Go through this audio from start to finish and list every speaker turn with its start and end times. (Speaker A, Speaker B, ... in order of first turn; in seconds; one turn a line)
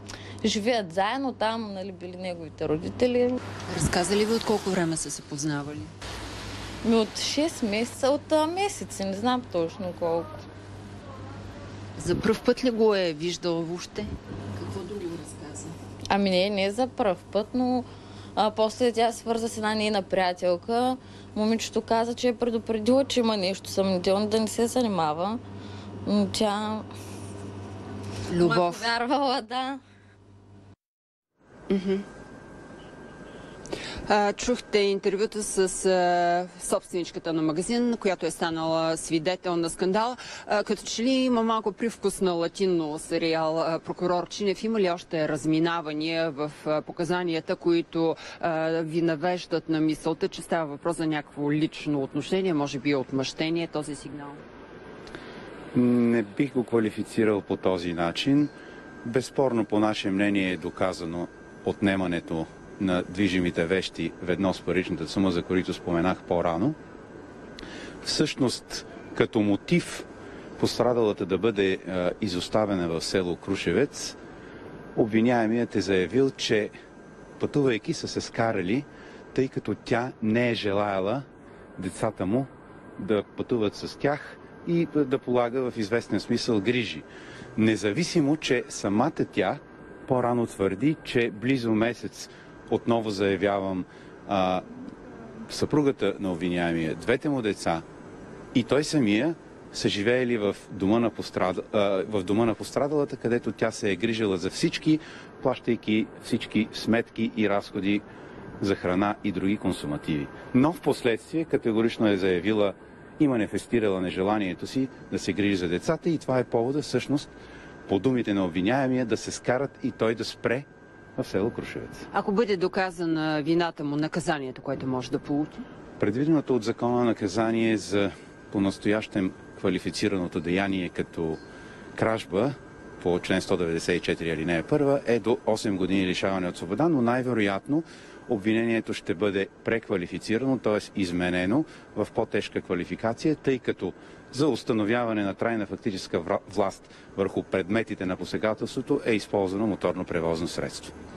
Speaker A: 0.4-3.4
Speaker B: 3.7-5.9
Speaker A: 6.8-10.3
Speaker B: 12.0-15.7
Speaker A: 16.1-25.4
Speaker A: 26.1-26.9
Speaker B: 28.3-28.9
Speaker A: 28.3-29.8
Speaker B: 31.7-32.0
Speaker B: 34.1-54.4
Speaker C: 55.7-58.5
Speaker C: 59.0-66.8
Speaker C: 68.0-70.1
Speaker C: 70.6-74.2
Speaker C: 75.0-76.7
Speaker C: 77.4-81.2
Speaker C: 81.8-94.6
Speaker C: 95.5-97.8
Speaker C: 98.5-108.0
Speaker C: 108.6-117.3
Speaker C: 117.9-120.7
Speaker C: 121.2-122.1
Speaker B: 122.1-125.6
Speaker C: 126.0-131.4
Speaker C: 131.9-150.9